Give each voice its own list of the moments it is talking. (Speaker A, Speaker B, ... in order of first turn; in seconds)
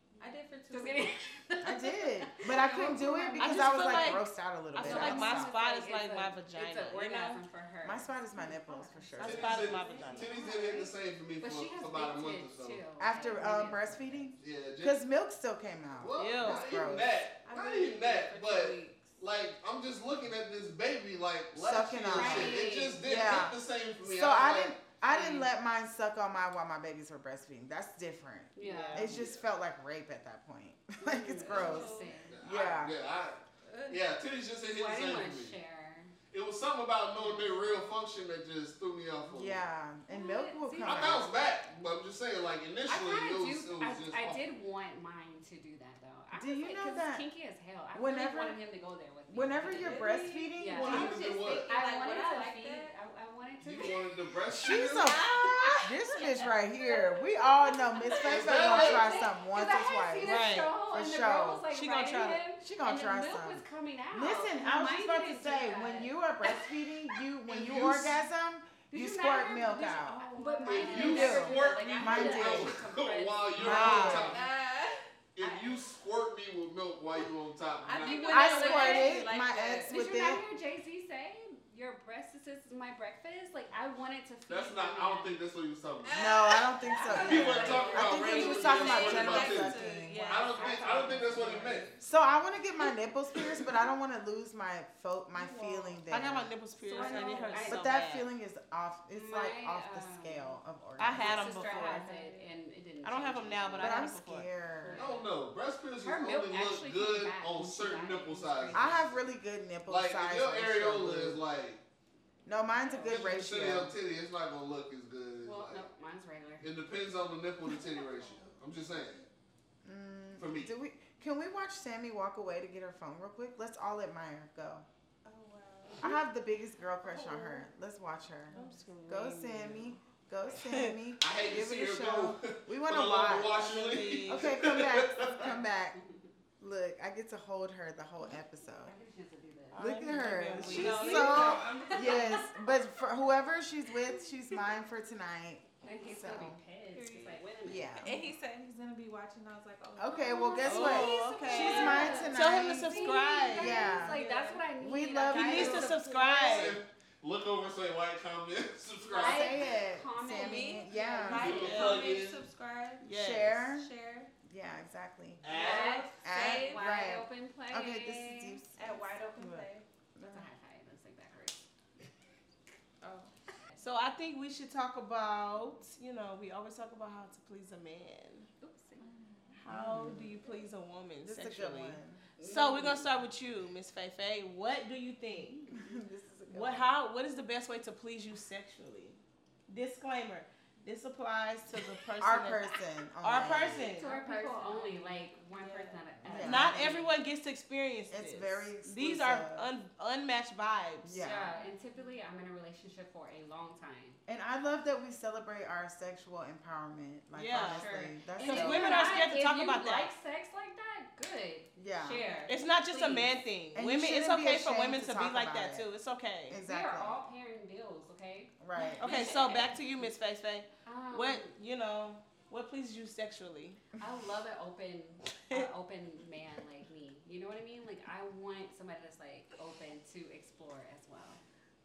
Speaker A: 0.2-1.2, 8.4-10.8, 17.4-19.2, 31.4-32.3, 33.6-34.0, 49.7-52.9, 54.7-57.5, 58.0-58.2, 69.5-72.4, 74.2-75.0, 77.8-80.1, 86.0-92.0, 95.3-96.1, 96.8-97.8, 101.3-102.5, 117.7-119.2, 125.2-126.1, 127.0-127.7, 128.5-128.9, 140.6-142.5, 146.9-152.4, 153.6-154.7, 155.3-156.4, 160.2-164.3, 165.5-167.2, 168.7-169.8, 173.0-173.3, 179.0-179.6, 193.8-196.1, 201.5-202.2, 212.2-212.5
Speaker B: 0.2-4.2, 4.8-8.2, 9.1-14.3, 22.1-23.0, 25.0-25.5, 28.6-29.2, 31.0-32.4, 34.7-36.1, 37.1-37.8, 40.1-41.2, 42.9-54.0, 56.1-56.5, 58.0-66.2, 68.9-74.4, 75.4-75.8, 77.9-85.4, 87.1-88.8, 90.5-91.7, 96.9-98.0, 99.1-100.6, 101.1-104.1, 104.8-105.3, 106.0-109.2, 112.7-113.2, 115.4-116.7, 135.4-136.3, 138.8-142.5, 145.8-148.2, 151.4-156.7, 159.1-161.7, 165.5-168.6, 170.2-171.6, 178.6-179.1, 182.4-183.1, 193.9-197.1, 201.2-204.2, 207.6-213.3, 216.6-219.7, 220.8-221.5, 224.0-231.4
Speaker C: 1.6-5.5, 7.8-9.6, 13.0-17.1, 21.5-32.9, 39.3-41.2, 46.3-47.2, 47.9-48.6, 49.3-51.1, 54.5-61.6, 62.6-70.3, 70.9-72.8, 73.5-74.3, 78.3-80.4, 86.1-90.4, 92.0-96.5, 97.7-101.4, 103.8-105.0, 108.7-111.4, 112.4-113.9, 119.8-124.8, 126.0-136.0, 136.6-139.0, 139.8-146.6, 147.6-148.2, 150.0-154.2, 154.8-155.9, 159.1-161.7, 163.1-163.9, 164.4-165.5, 166.2-170.5, 179.7-180.3, 181.2-182.2, 185.7-186.9, 192.2-193.9, 196.2-196.8, 198.1-199.7, 201.0-201.5, 204.2-209.2, 211.8-212.2, 213.7-215.9, 216.5-217.2, 218.6-219.1
Speaker D: 3.4-7.4, 9.2-10.3, 16.2-16.6, 28.6-29.2, 60.2-60.7, 61.7-62.4, 73.6-74.3, 96.1-98.3, 101.0-102.1, 103.0-104.5, 128.5-129.9, 130.5-130.9, 133.6-134.7, 139.7-142.4, 150.6-153.9, 155.3-156.8, 161.5-162.1, 163.0-163.6, 173.8-178.5, 179.5-185.7, 186.5-194.1, 196.2-201.2, 207.3-210.1, 212.5-216.6, 219.0-223.8
Speaker E: 9.2-12.8, 14.4-15.0, 16.0-24.8, 31.5-35.6, 36.3-39.6, 40.8-44.4, 50.7-51.7, 53.6-55.2, 58.2-59.2, 67.5-68.2, 70.6-74.5, 75.3-78.3, 84.5-86.2, 87.1-92.3, 105.0-108.9, 109.9-111.8, 113.0-115.8, 116.6-119.2, 120.4-120.7, 131.2-135.5, 156.4-159.7, 161.3-162.4, 165.4-166.1